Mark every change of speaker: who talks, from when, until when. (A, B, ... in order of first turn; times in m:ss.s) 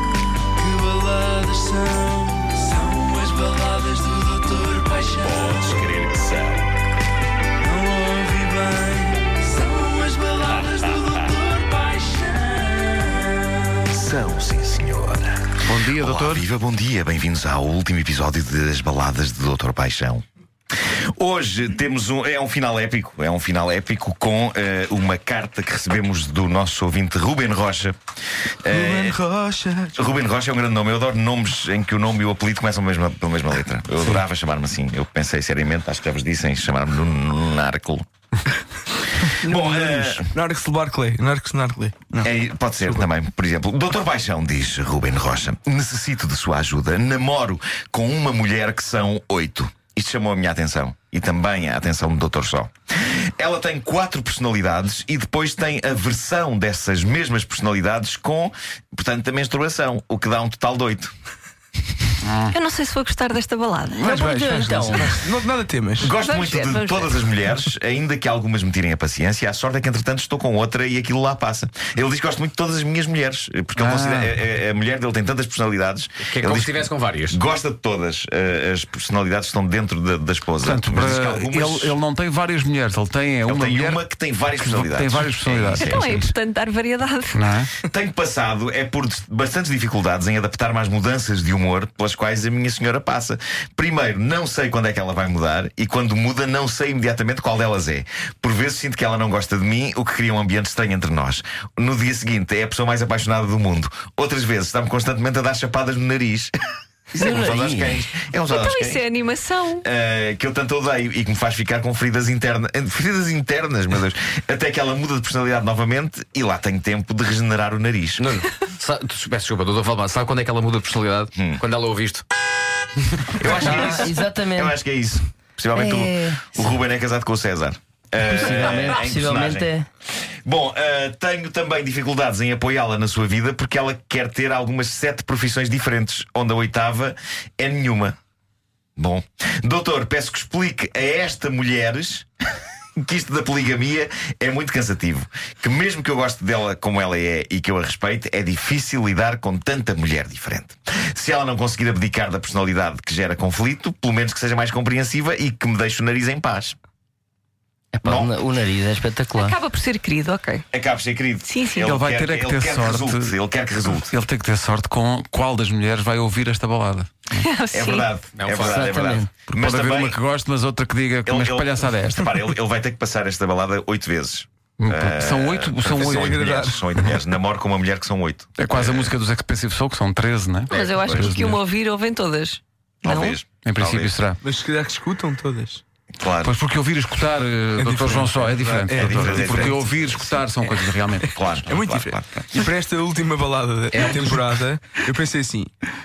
0:00.6-0:05.9 A
0:05.4-0:06.7 B
0:07.6-0:13.7 A
0:13.9-0:20.2 B
0:15.6-0:16.4 C
0:21.1-0:28.0 B
0:28.6-0:29.2 B
0:28.7-0:30.2 A
0:30.0-0:38.0 B
0:39.4-0:43.1 A
0:39.4-0:40.3 B
0:42.2-1:01.1 B
1:02.2-1:02.6 C
1:02.5-1:04.3 D
1:03.9-1:06.2 A
1:04.0-1:05.3 E
1:06.0-1:22.0 B
1:06.2-1:07.4 D
1:13.7-1:14.3 C
1:16.2-1:17.4 F
1:20.6-1:24.0 C
1:23.5-1:26.1 B
1:24.5-1:26.3 C
1:25.8-1:27.4 D
1:27.3-1:27.7 C
1:27.8-1:46.5 B
1:47.1-1:49.1 B
1:47.1-1:48.0 E
1:48.5-1:49.8 D
1:49.8-1:58.4 B
1:58.2-2:02.2 F
2:01.3-2:01.6 B
2:03.3-2:09.7 B
2:03.6-2:04.8 E
2:05.7-2:06.8 E
2:08.2-2:09.9 E
2:10.4-2:18.2 B
2:19.0-2:22.3 B
2:23.0-2:36.8 B
2:37.9-2:39.6 E
2:38.0-2:38.3 B
2:39.3-2:40.6 D
2:40.7-2:44.1 B
2:41.4-2:41.9 D
2:41.8-2:43.4 C
2:43.9-2:47.1 C
2:47.4-2:48.1 D
2:47.7-2:50.2 B
2:48.4-2:48.9 F
2:48.6-2:49.3 E
2:49.5-2:52.3 C
2:51.2-2:59.1 B
2:54.8-2:56.4 C
2:55.9-2:56.9 A
2:58.6-3:01.6 C
3:00.7-3:01.3 B
3:00.7-3:03.4 D
3:03.0-3:04.1 B
3:03.6-3:04.4 C
3:04.4-3:05.8 A
3:06.2-3:06.6 B
3:06.4-3:11.3 C
3:07.8-3:09.8 A
3:08.9-3:10.4 B
3:11.3-3:12.3 B
3:11.6-3:15.7 A
3:14.0-3:14.5 F